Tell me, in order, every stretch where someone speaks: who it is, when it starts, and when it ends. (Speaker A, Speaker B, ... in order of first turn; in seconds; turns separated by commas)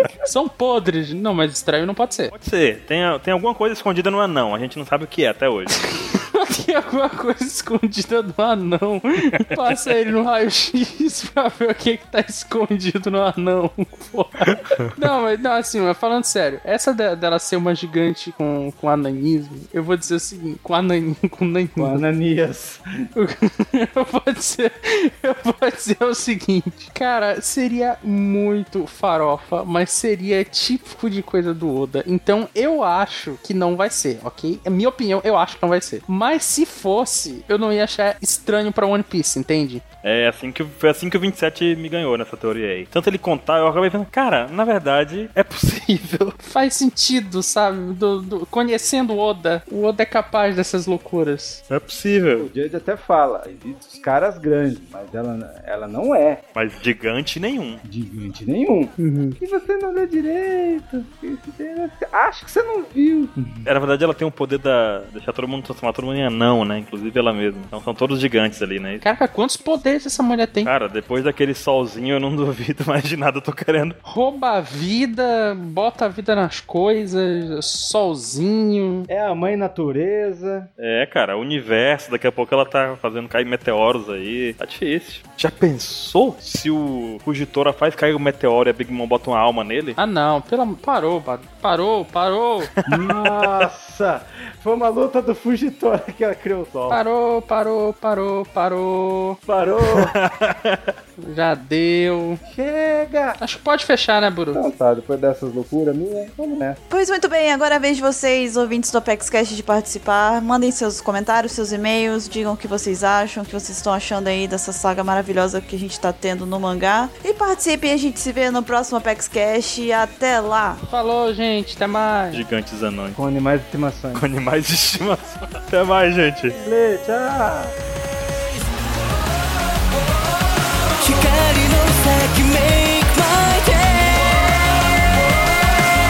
Speaker A: 0.2-2.3, Speaker B: 2.3-5.8, Speaker A: 5.7-22.0, Speaker C: 21.8-22.8, Speaker A: 23.1-39.8, Speaker B: 40.0-46.4, Speaker A: 46.4-51.6, Speaker B: 51.7-52.5, Speaker C: 52.4-56.4, Speaker B: 56.5-57.8, Speaker C: 57.8-63.6, Speaker A: 59.0-59.4, Speaker B: 63.6-69.0, Speaker A: 69.0-70.7, Speaker B: 70.6-74.0, Speaker A: 74.0-79.1, Speaker C: 79.1-80.7, Speaker B: 80.8-90.0, Speaker A: 90.0-92.7, Speaker B: 92.8-93.7, Speaker C: 92.8-97.0, Speaker A: 96.9-99.4, Speaker C: 99.5-100.1, Speaker B: 99.8-100.8, Speaker A: 101.2-102.4, Speaker C: 102.5-103.4, Speaker A: 103.4-104.6, Speaker C: 104.5-106.8, Speaker D: 106.9-120.8, Speaker A: 120.8-122.4, Speaker B: 122.3-123.2, Speaker C: 123.2-124.2, Speaker B: 124.1-126.6, Speaker C: 126.6-127.7, Speaker E: 131.0-135.0